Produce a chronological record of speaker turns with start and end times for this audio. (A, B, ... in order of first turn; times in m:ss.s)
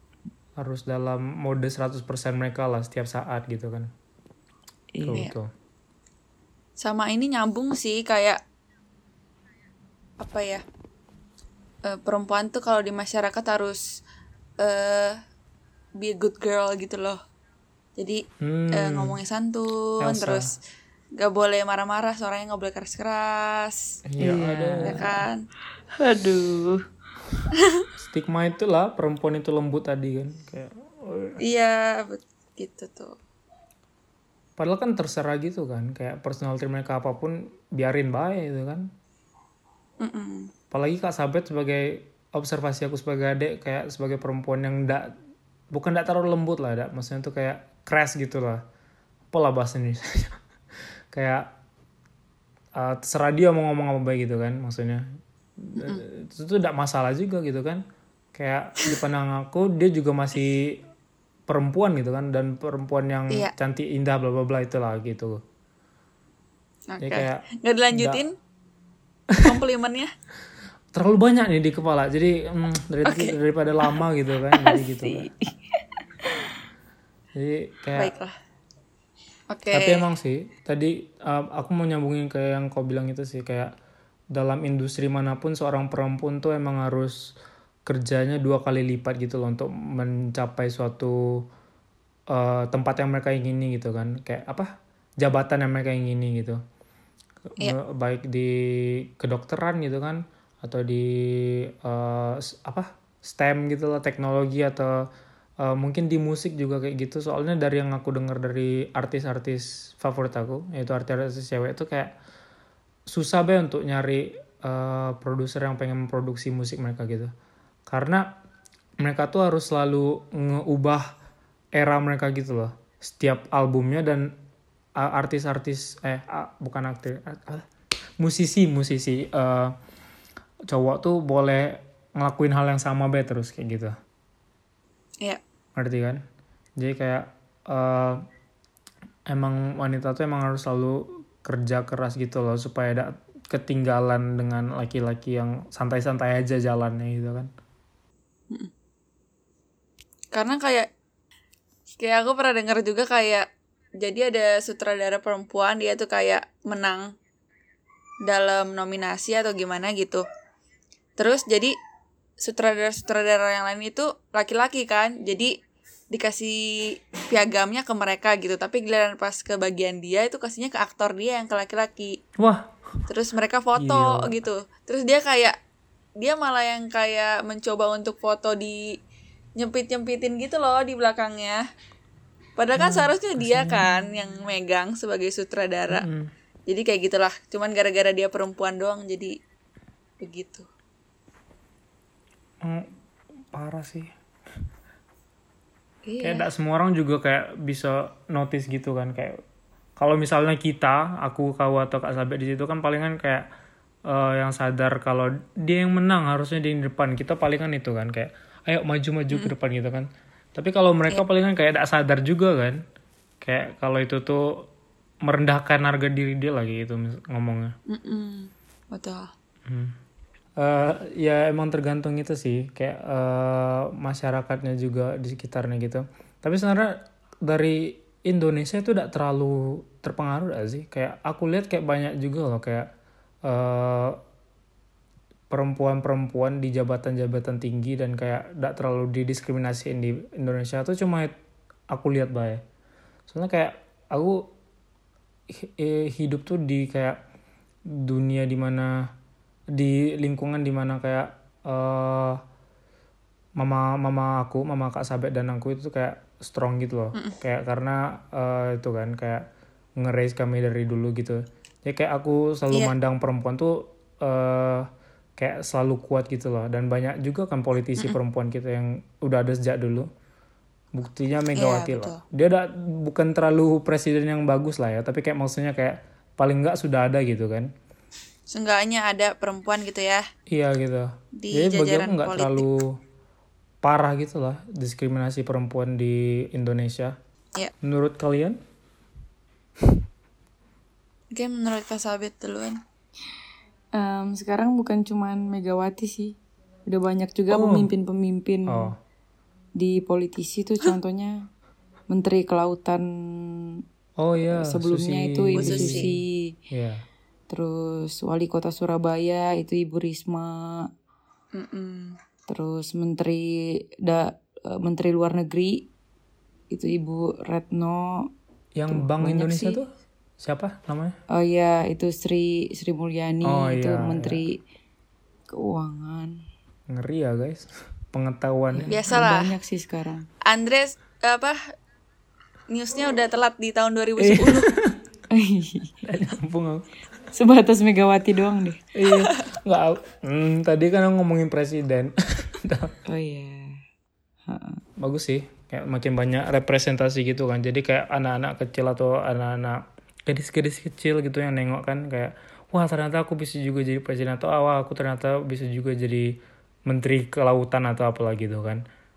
0:00.6-0:03.9 A
0:04.9-0:05.3 B
0:05.0-0:05.5 A
0:06.8-0:08.4 C
0:10.2-0:10.6 C
0:11.8-0:13.8 C
0:14.6-0:15.2 C
0:16.0-0:17.2 C
0:18.0-0:20.5 C
0:18.4-0:19.2 A
0:20.0-0:20.5 A
0:21.2-0:23.9 C
0:24.1-0:25.0 A
0:24.2-0:25.2 B
0:24.8-0:25.4 C
0:26.0-0:26.8 B
0:27.6-0:27.9 C
0:28.0-0:31.4 A
0:31.4-0:33.2 C
0:34.6-0:38.9 A
0:40.0-0:40.5 C
0:40.7-0:45.1 A
0:45.7-0:48.6 A
0:49.3-0:51.5 A
0:52.8-0:55.0 A
0:55.6-0:57.8 A
0:58.3-1:00.8 A
1:01.5-1:05.4 A
1:06.9-1:08.3 C
1:07.0-1:08.2 A
1:09.3-1:09.6 A
1:09.4-1:10.1 C
1:10.9-1:15.3 A
1:13.0-1:13.3 C
1:14.7-1:16.5 B
1:17.4-1:18.1 A
1:18.0-1:18.3 C
1:19.5-1:20.1 C
1:19.7-1:23.7 A
1:24.3-1:27.3 A
1:27.8-1:31.4 A
1:32.3-1:36.6 A
1:37.5-1:45.0 A
1:45.6-1:52.1 A
1:53.1-1:57.3 A
1:57.9-1:58.3 A
1:59.0-2:01.1 A
2:01.8-2:04.3 A
2:05.0-2:07.6 A
2:08.2-2:09.7 A
2:10.7-2:13.9 A
2:15.8-2:16.2 A
2:16.8-2:18.2 A
2:19.3-2:27.5 A
2:30.3-2:30.9 C
2:32.0-2:33.5 C
2:34.0-2:37.1 C
2:38.2-2:40.2 C
2:41.2-2:41.7 C
2:42.4-2:45.5 C
2:46.1-2:52.2 C
2:52.4-2:52.8 A
2:53.1-2:55.5 C
2:53.8-2:54.4 A
2:56.2-2:59.0 C
2:59.6-3:01.6 C
3:02.6-3:06.0 C
3:02.8-3:04.0 A
3:05.9-3:06.3 A
3:06.7-3:09.3 C
3:10.2-3:10.7 C
3:12.6-3:12.9 A
3:13.5-3:14.1 A
3:16.0-3:16.4 C
3:16.2-3:19.4 A
3:20.0-3:23.4 A
3:24.1-3:32.8 A
3:33.4-3:34.7 A
3:35.2-3:37.7 A
3:37.9-3:39.3 C
3:39.6-3:40.0 A
3:40.6-3:52.9 A
3:53.4-3:54.2 A
3:55.5-4:01.3 A
4:01.9-4:02.6 A
4:03.3-4:04.5 A
4:05.5-4:07.2 A
4:07.9-4:09.0 A
4:09.7-4:12.4 A
4:13.6-4:19.4 A
4:20.0-4:30.1 A
4:30.9-4:37.7 A
4:31.5-4:32.2 C
4:38.5-4:40.3 C
4:40.5-4:43.0 A
4:41.4-4:42.7 C
4:43.8-4:47.2 A
4:47.8-4:48.6 A
4:51.3-4:52.8 C
4:53.9-4:58.9 B
4:57.5-4:57.9 A
4:58.7-4:59.0 A
4:59.8-5:01.5 B
5:02.1-5:03.8 B
5:04.2-5:06.1 A
5:04.4-5:06.5 B
5:05.5-5:06.1 C
5:06.7-5:07.0 A
5:07.5-5:10.9 B
5:11.5-5:12.2 C
5:12.5-5:15.9 B
5:16.7-5:18.3 B
5:18.7-5:21.2 A
5:18.9-5:19.8 B
5:21.3-5:24.6 B
5:23.4-5:24.4 A
5:25.5-5:26.4 B
5:26.9-5:28.9 A
5:28.7-5:30.2 B
5:28.9-5:29.6 C
5:30.4-5:31.6 C
5:32.7-5:34.7 C
5:34.2-5:35.0 A
5:35.3-5:35.9 B
5:36.0-5:36.8 A
5:37.3-5:38.9 B
5:38.9-5:42.9 A
5:43.1-5:43.8 B
5:44.5-5:44.8 B
5:45.0-5:58.8 A